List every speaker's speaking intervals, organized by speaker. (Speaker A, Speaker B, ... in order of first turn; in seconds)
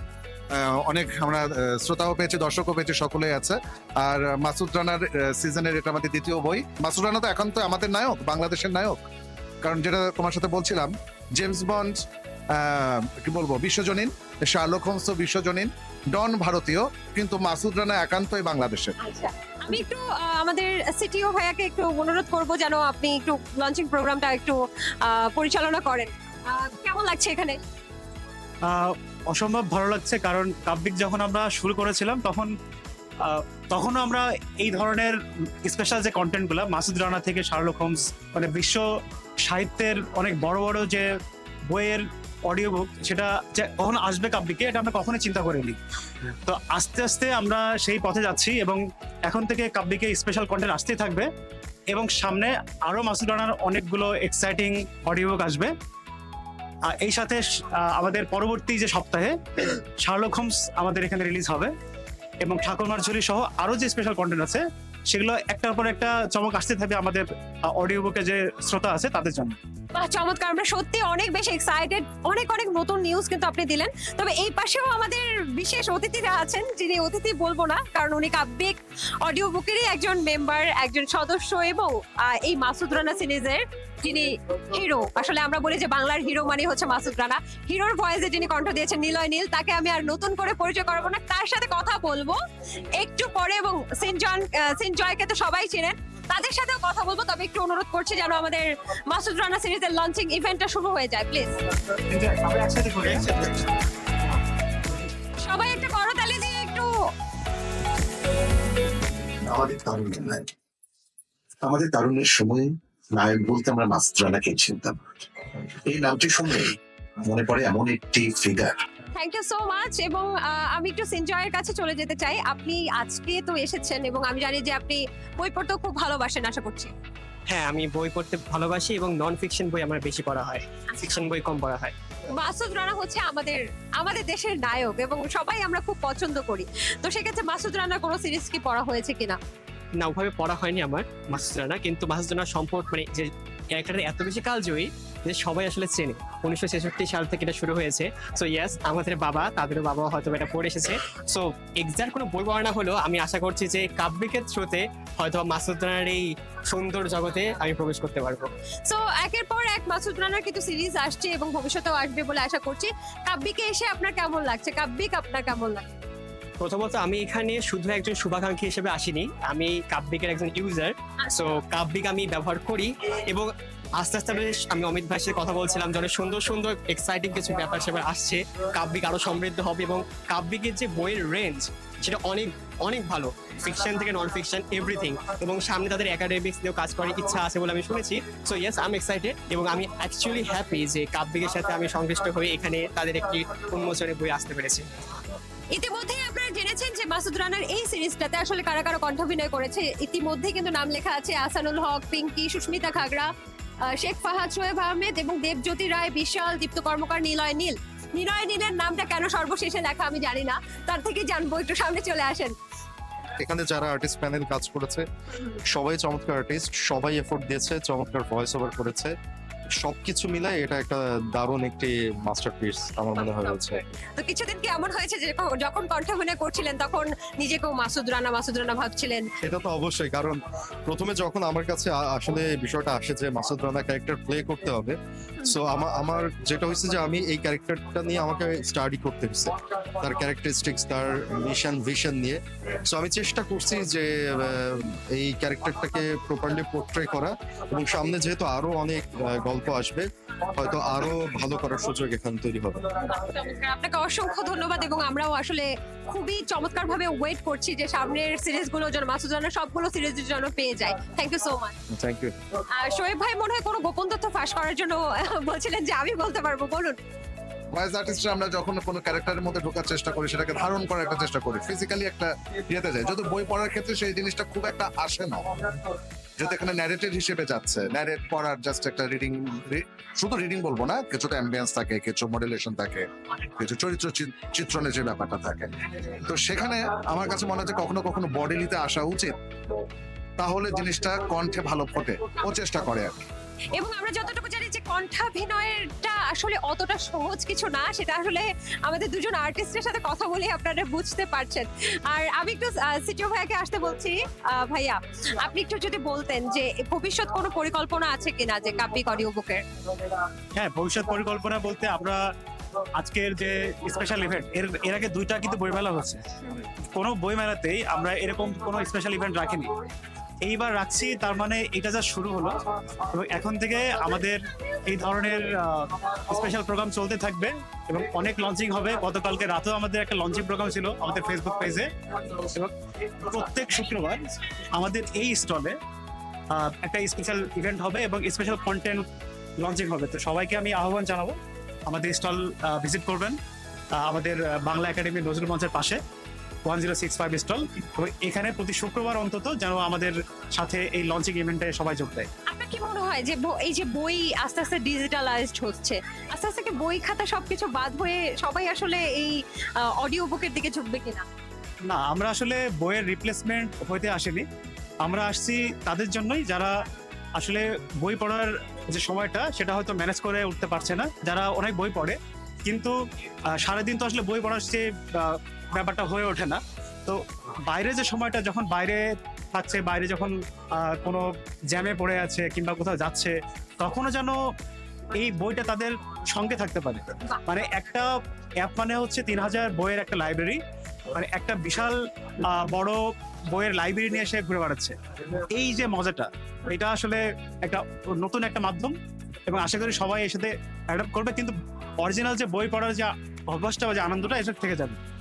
Speaker A: 0.5-9.0, 9.6-11.9, 12.5-18.9, 114.0-114.5, 117.4-118.6, 267.7-275.7, 276.4-289.4, 290.4-293.1
Speaker B: 19.0-27.6, 69.9-92.4, 92.9-101.5, 105.4-106.9, 119.1-126.9, 132.3-139.4, 158.8-165.9, 195.7-203.3, 203.9-212.5, 224.2-229.3, 253.0-261.7, 262.7-267.0, 293.7-309.6, 352.5-361.2
Speaker C: 28.6-32.5, 33.2-51.3, 51.9-55.7, 56.8-61.7, 62.4-69.6, 102.1-103.7, 310.5-312.3, 312.9-319.7, 320.4-335.8, 336.5-339.1, 339.6-343.4, 343.9-346.0, 346.6-352.3, 361.8-364.4, 365.0-366.8, 367.3-384.4, 385.1-398.9, 399.4-405.0
Speaker D: 109.5-110.5, 111.6-115.0, 115.8-118.7
Speaker E: 127.5-131.9, 140.0-158.5, 166.6-194.9
Speaker F: 213.4-219.1, 219.8-223.8, 229.4-252.9, 261.9-262.3